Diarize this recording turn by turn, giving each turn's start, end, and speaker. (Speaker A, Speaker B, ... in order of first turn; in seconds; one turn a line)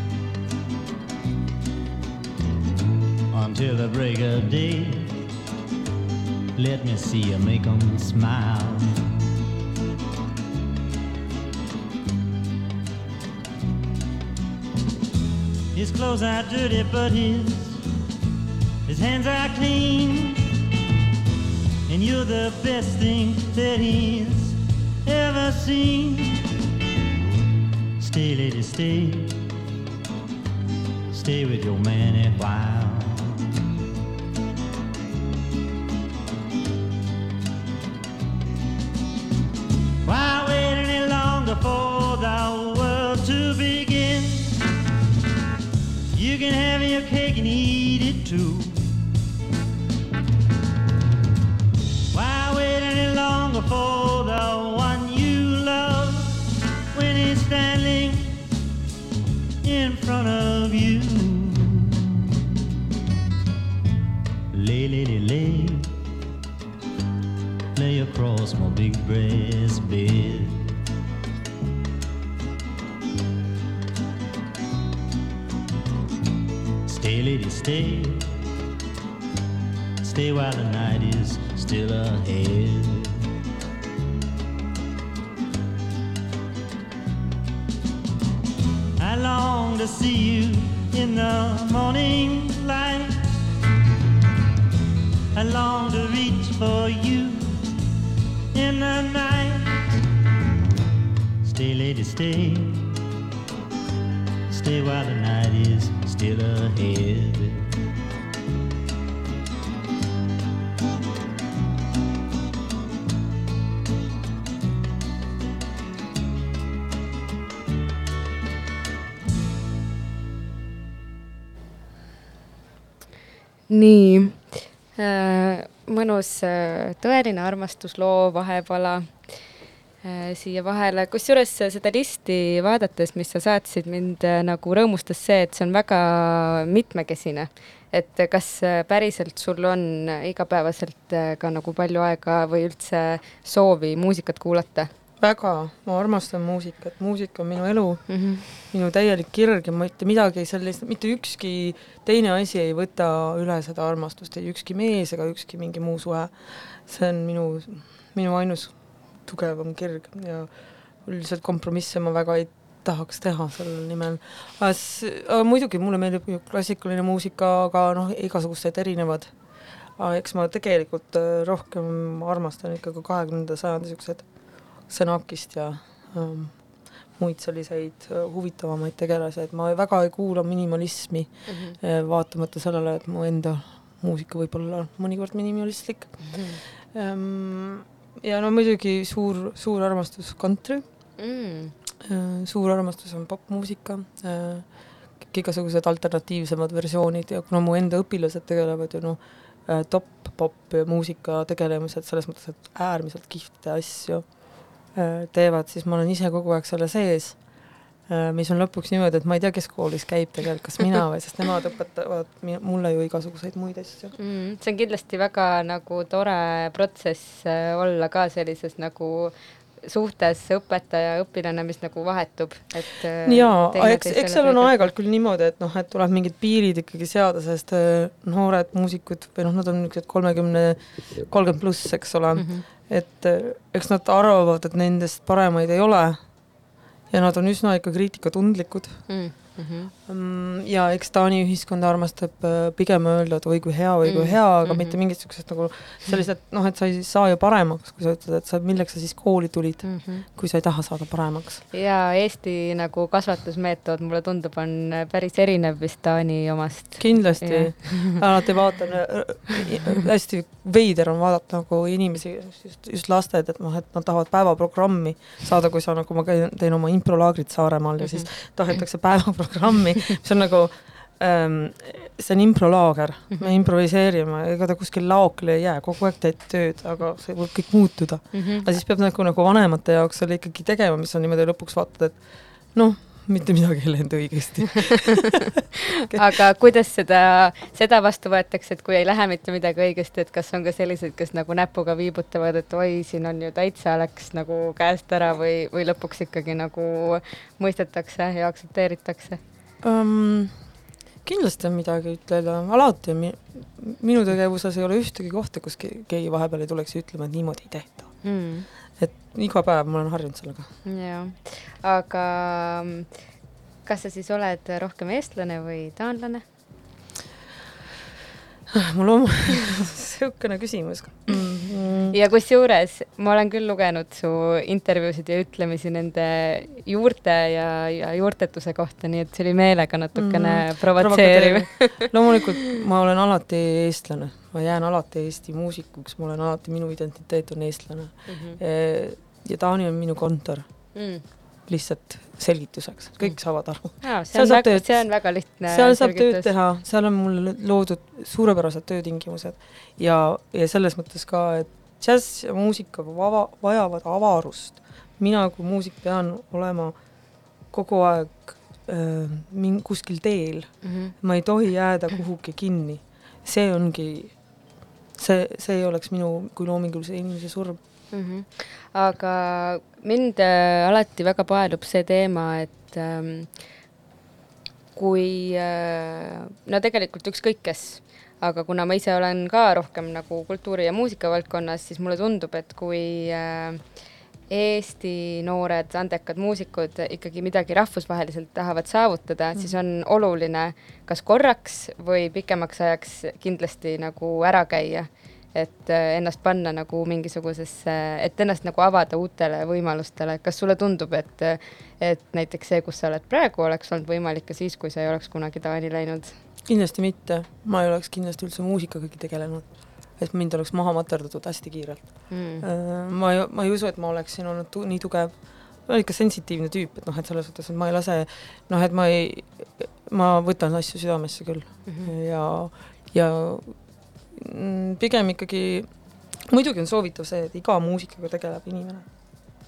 Speaker A: 3.3-5.1
Speaker A: 6.5-9.1
Speaker A: 15.7-17.8
Speaker A: 18.9-20.4
Speaker A: 21.9-26.4
Speaker A: 28.0-29.4
Speaker A: 31.1-33.5
Speaker A: 40.0-44.5
Speaker A: 46.1-48.8
Speaker A: 52.1-56.4
Speaker A: 56.9-58.3
Speaker A: 59.6-62.2
Speaker A: 64.5-65.9
Speaker A: 67.7-70.8
Speaker A: 76.8-78.3
Speaker A: 80.0-83.3
Speaker A: 89.0-93.3
Speaker A: 95.3-97.6
Speaker A: 98.5-99.8
Speaker A: 101.4-103.0
Speaker A: 104.5-107.7
Speaker B: 123.7-129.3
Speaker B: 130.0-144.9
Speaker C: 145.2-160.5
Speaker B: 148.1-148.5
Speaker C: 161.0-169.3
Speaker C: 170.0-174.2
Speaker C: 174.9-176.6
Speaker C: 177.2-186.2
Speaker B: 181.5-181.8
Speaker B: 186.3-186.6
Speaker C: 186.9-190.8
Speaker B: 191.2-191.7
Speaker C: 192.0-194.7
Speaker C: 195.2-204.3
Speaker C: 204.9-207.4
Speaker C: 208.1-214.1
Speaker B: 214.2-224.9
Speaker C: 223.2-236.2
Speaker B: 232.4-232.6
Speaker C: 237.1-239.0
Speaker B: 239.1-239.9
Speaker C: 240.1-251.6
Speaker B: 244.0-244.9
Speaker B: 249.8-250.2
Speaker B: 251.7-258.2
Speaker C: 257.0-282.2
Speaker B: 278.3-278.6
Speaker C: 282.7-286.2
Speaker B: 286.1-299.4
Speaker C: 299.8-300.5
Speaker C: 301.2-308.1
Speaker B: 308.2-308.7
Speaker C: 309.0-310.7
Speaker B: 310.9-313.1
Speaker B: 313.9-316.4
Speaker C: 318.7-322.2
Speaker B: 322.1-332.4
Speaker C: 330.1-340.6
Speaker B: 338.3-338.6
Speaker B: 340.9-341.2
Speaker C: 341.7-345.0
Speaker B: 344.0-346.5
Speaker C: 345.7-356.9
Speaker C: 357.7-364.3
Speaker B: 360.8-361.1
Speaker C: 365.2-367.8
Speaker B: 368.1-373.5
Speaker B: 374.9-383.8
Speaker B: 384.5-406.4
Speaker C: 406.7-423.8
Speaker B: 412.3-412.6
Speaker C: 424.3-425.9
Speaker C: 426.5-429.1